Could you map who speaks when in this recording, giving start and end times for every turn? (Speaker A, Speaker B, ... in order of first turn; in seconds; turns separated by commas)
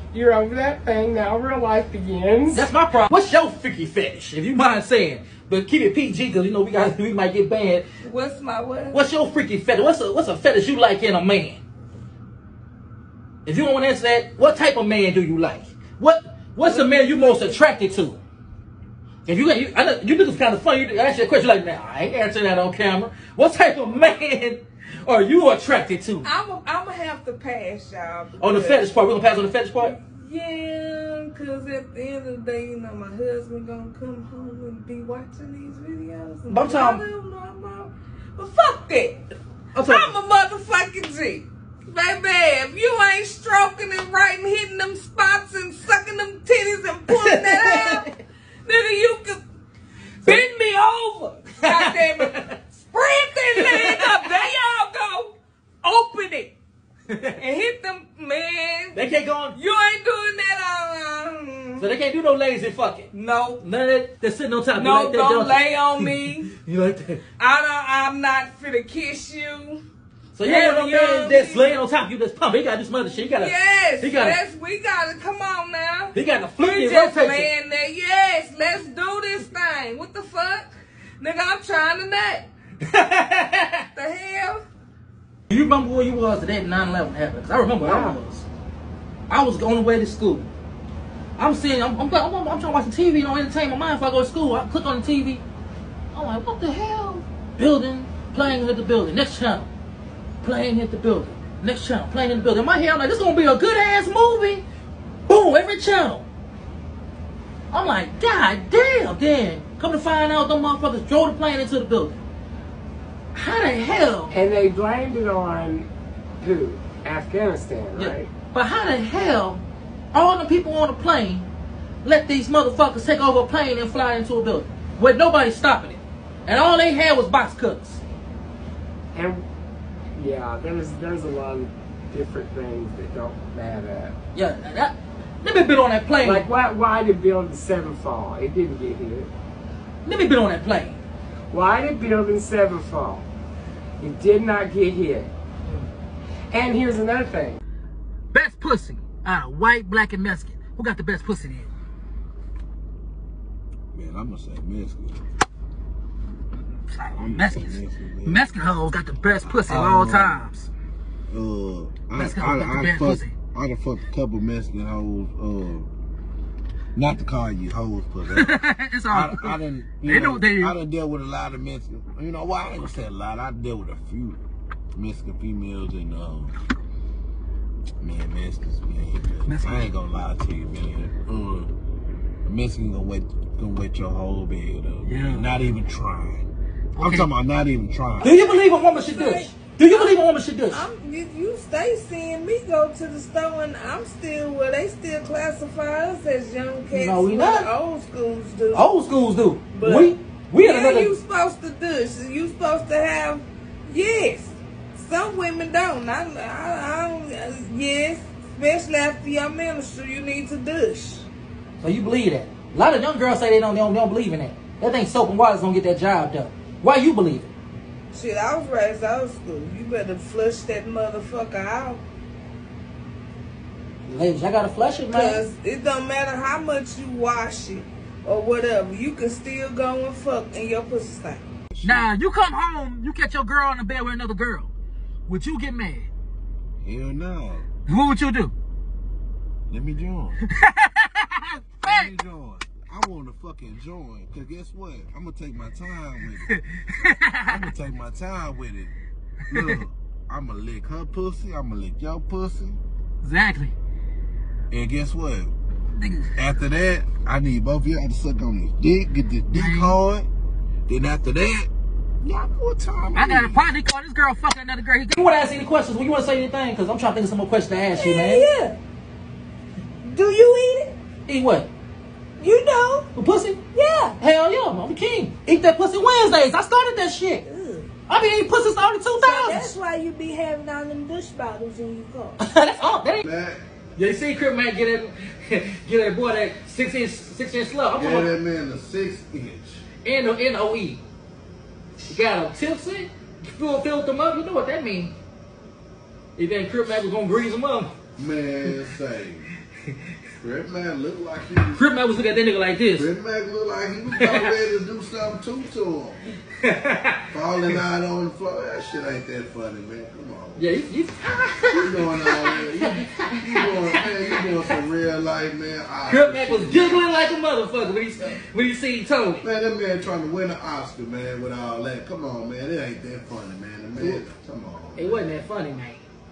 Speaker A: 0.1-2.7, Speaker B: 2.5-7.8, Speaker C: 8.0-9.0, Speaker B: 8.9-11.6, Speaker B: 13.4-18.2, Speaker C: 16.6-17.6, Speaker B: 19.2-26.3, Speaker C: 26.2-28.9, Speaker B: 28.4-30.0, Speaker C: 29.8-39.2, Speaker B: 36.5-37.0, Speaker B: 39.7-40.1, Speaker C: 39.7-48.0, Speaker B: 47.1-48.1, Speaker C: 48.6-49.4, Speaker C: 50.2-56.5, Speaker B: 51.6-52.5, Speaker B: 53.5-54.3, Speaker B: 57.1-57.4, Speaker C: 57.4-59.0, Speaker B: 58.9-59.6, Speaker C: 59.5-61.9, Speaker B: 61.8-67.2, Speaker C: 63.1-63.6, Speaker C: 64.7-66.5, Speaker C: 67.4-69.8, Speaker B: 70.3-74.4, Speaker C: 70.4-71.7, Speaker C: 73.2-82.5, Speaker B: 76.1-77.5, Speaker B: 82.8-83.8, Speaker C: 83.9-84.6, Speaker B: 85.5-88.4, Speaker A: 87.8-88.2, Speaker B: 89.3-90.5, Speaker B: 91.4-95.4, Speaker B: 96.1-99.7, Speaker B: 100.4-104.6, Speaker B: 105.3-106.2, Speaker B: 107.7-112.2, Speaker B: 113.3-114.3, Speaker A: 114.3-115.9, Speaker A: 116.4-118.3, Speaker B: 118.0-121.5, Speaker B: 122.0-128.0, Speaker A: 129.1-129.4, Speaker A: 130.2-134.2, Speaker B: 134.3-136.5, Speaker A: 136.2-139.3, Speaker B: 140.0-141.0, Speaker A: 141.5-143.2, Speaker A: 144.0-145.3, Speaker A: 146.5-147.6, Speaker B: 148.3-151.7, Speaker D: 153.9-155.2, Speaker B: 156.9-160.7, Speaker D: 157.2-158.4, Speaker D: 159.5-160.4, Speaker D: 161.3-165.9, Speaker B: 162.1-163.3, Speaker D: 166.9-168.6, Speaker B: 168.3-170.8, Speaker D: 169.1-174.4, Speaker D: 174.9-176.5, Speaker D: 178.0-181.7, Speaker B: 179.4-179.9, Speaker D: 182.4-188.3, Speaker B: 185.1-185.6, Speaker B: 186.9-187.3, Speaker B: 188.2-190.8, Speaker C: 188.2-198.9, Speaker B: 196.9-197.7, Speaker B: 198.7-201.1, Speaker C: 199.7-211.3, Speaker B: 211.8-217.5, Speaker C: 218.1-222.0, Speaker B: 224.1-225.4, Speaker C: 225.1-231.4, Speaker D: 231.7-232.0, Speaker B: 231.8-234.7, Speaker B: 235.3-236.1, Speaker D: 236.8-237.7, Speaker B: 237.8-238.5, Speaker D: 239.7-240.4, Speaker B: 240.5-242.1, Speaker D: 241.8-246.5, Speaker B: 246.5-247.6, Speaker D: 247.5-248.9, Speaker D: 249.5-252.8, Speaker B: 253.2-253.7, Speaker D: 254.7-255.5, Speaker B: 255.9-256.4, Speaker D: 256.4-260.3, Speaker B: 259.5-260.0, Speaker D: 260.9-261.7, Speaker D: 262.2-263.7, Speaker B: 263.1-268.5, Speaker C: 267.9-268.8, Speaker C: 270.0-270.9, Speaker B: 271.3-271.7, Speaker C: 272.4-273.1, Speaker B: 273.1-273.6, Speaker C: 273.7-274.2, Speaker B: 274.2-277.4, Speaker C: 277.4-277.9, Speaker B: 278.1-279.7, Speaker C: 279.2-282.4, Speaker B: 282.4-283.2, Speaker D: 283.2-283.6, Speaker B: 283.9-288.3, Speaker D: 287.9-289.8, Speaker B: 290.0-291.0, Speaker B: 292.1-295.1, Speaker B: 296.4-297.9, Speaker D: 298.2-299.5, Speaker D: 300.4-301.8, Speaker B: 301.7-303.1, Speaker D: 302.9-306.3, Speaker B: 304.2-304.5, Speaker B: 306.6-307.8, Speaker D: 307.3-310.7, Speaker B: 310.6-314.8, Speaker D: 311.7-317.1, Speaker B: 316.1-319.4, Speaker D: 319.4-325.2, Speaker B: 323.9-324.2, Speaker B: 324.9-326.0